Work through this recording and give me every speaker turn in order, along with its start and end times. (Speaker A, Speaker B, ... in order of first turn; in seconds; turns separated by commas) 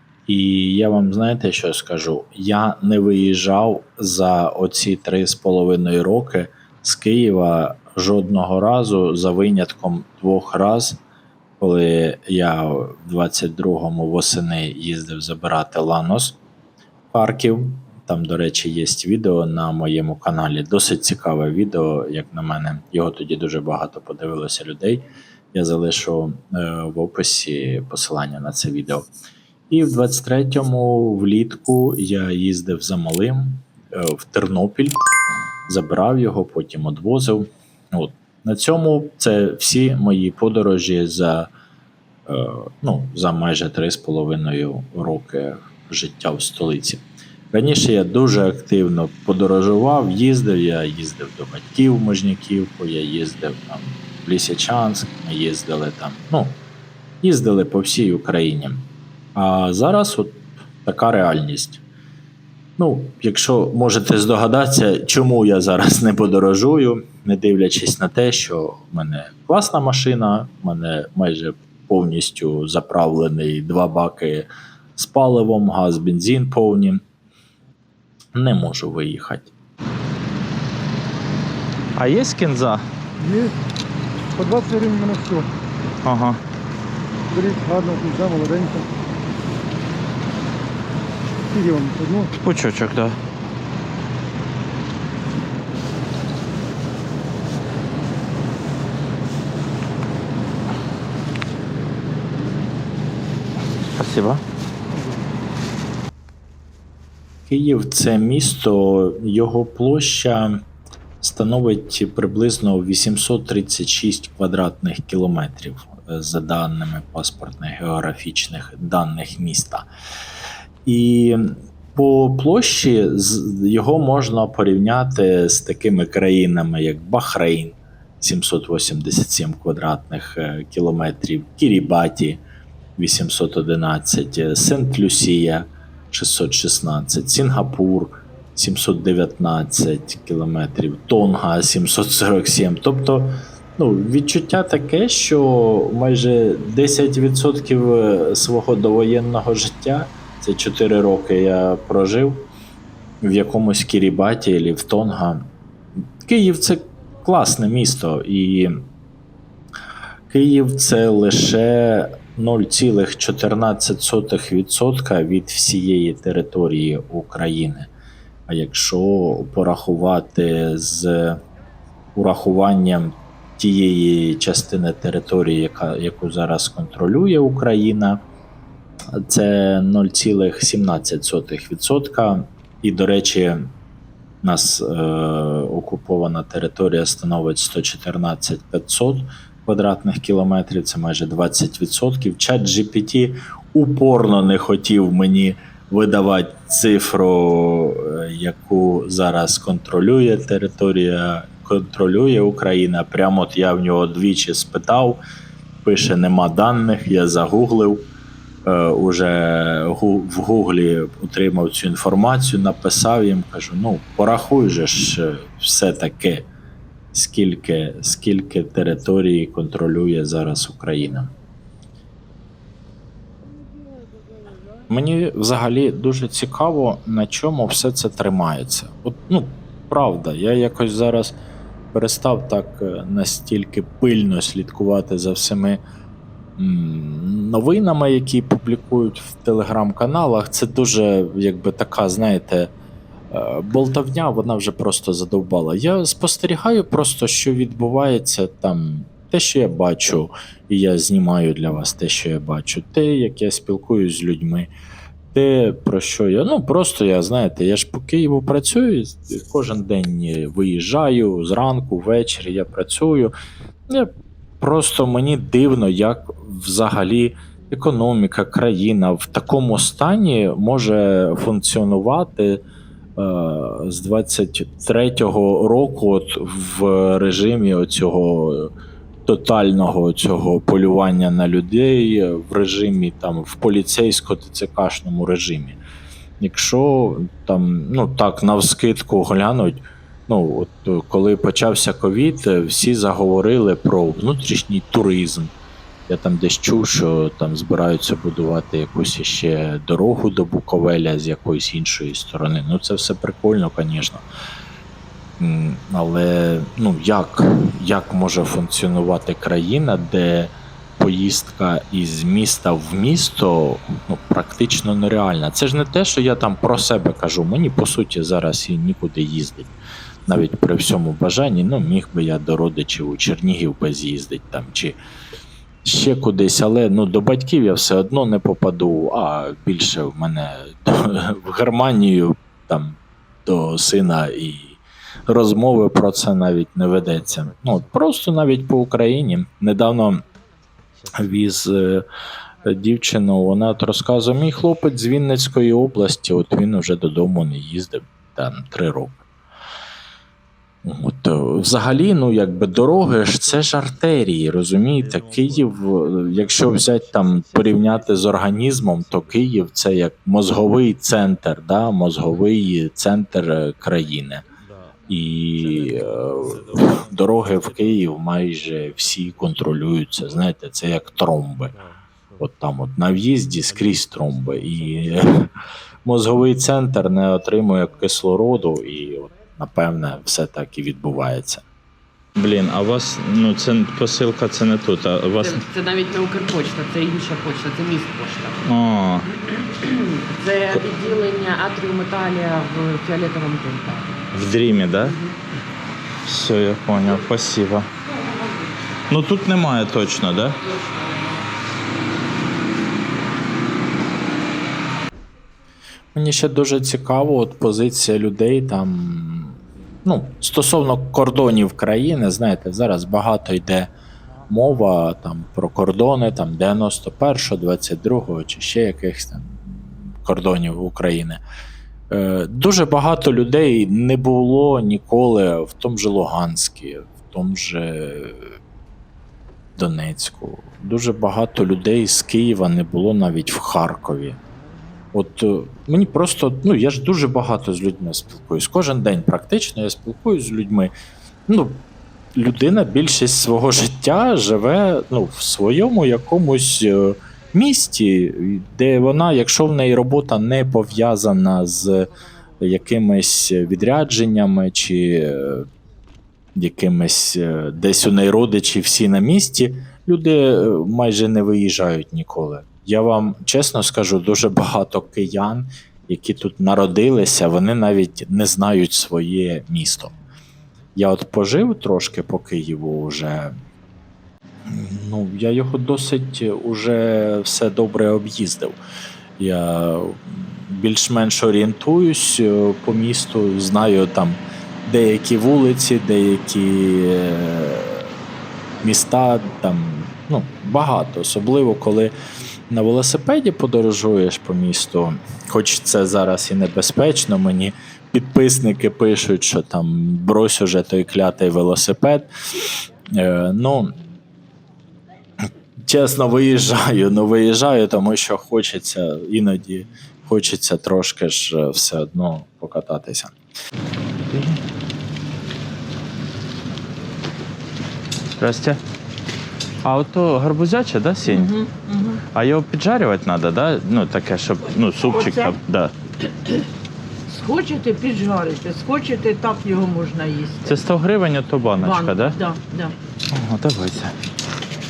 Speaker A: 0.3-11.0, Speaker A: 11.6-16.4, Speaker A: 17.1-29.1, Speaker A: 29.7-35.0, Speaker A: 35.7-41.5, Speaker A: 42.3-56.6, Speaker A: 57.2-61.8, Speaker A: 62.8-77.0, Speaker A: 78.3-79.5, Speaker B: 82.0-82.8, Speaker C: 83.2-83.5, Speaker C: 84.3-85.5, Speaker B: 86.0-86.4, Speaker C: 87.3-88.9, Speaker C: 91.5-92.3, Speaker B: 92.4-93.2, Speaker B: 103.9-104.4, Speaker A: 107.5-110.6, Speaker A: 111.2-119.9, Speaker A: 120.8-132.4, Speaker A: 133.0-152.5, Speaker A: 153.2-155.4, Speaker A: 156.2-158.8, Speaker A: 160.3-167.9, Speaker A: 168.5-171.4, Speaker A: 172.1-178.2, Speaker A: 179.1-183.7, Speaker A: 184.4-205.2, Speaker A: 205.8-208.1, Speaker A: 208.7-216.5, Speaker A: 217.1-221.3, Speaker A: 224.9-231.4, Speaker A: 231.9-235.8, Speaker A: 236.6-242.7, Speaker A: 243.3-254.7, Speaker A: 255.3-263.3, Speaker A: 263.9-272.6, Speaker A: 273.2-278.7, Speaker A: 279.2-285.8, Speaker A: 286.4-295.5, Speaker A: 296.1-304.2, Speaker A: 305.4-319.7, Speaker A: 320.3-325.0, Speaker A: 325.8-340.2, Speaker A: 341.1-342.0, Speaker A: 342.6-349.2, Speaker A: 350.8-364.4, Speaker B: 354.9-359.5, Speaker B: 364.6-368.1, Speaker A: 365.1-371.7, Speaker B: 371.7-372.1, Speaker A: 372.4-375.5, Speaker B: 373.9-375.2, Speaker A: 376.0-381.6, Speaker B: 382.4-385.6, Speaker D: 385.6-388.6, Speaker B: 388.6-389.3, Speaker D: 389.8-394.1, Speaker B: 394.3-395.2, Speaker B: 396.2-397.9, Speaker B: 399.1-400.6, Speaker A: 406.1-413.9, Speaker A: 414.5-421.4, Speaker A: 422.1-428.4, Speaker A: 429.8-434.4, Speaker A: 435.1-440.9, Speaker A: 441.5-441.8, Speaker A: 442.4-452.1, Speaker A: 452.6-455.6, Speaker A: 456.5-470.1, Speaker A: 470.9-473.5, Speaker A: 474.7-478.8, Speaker A: 479.4-488.1, Speaker A: 488.8-492.1, Speaker A: 492.7-503.9, Speaker A: 505.8-513.3, Speaker B: 514.3-514.6, Speaker B: 518.4-518.8, Speaker B: 519.8-521.5, Speaker E: 521.2-522.2, Speaker B: 522.3-525.9, Speaker E: 525.1-525.5, Speaker E: 527.3-530.6, Speaker B: 530.6-532.4, Speaker E: 531.8-532.9, Speaker B: 533.3-534.1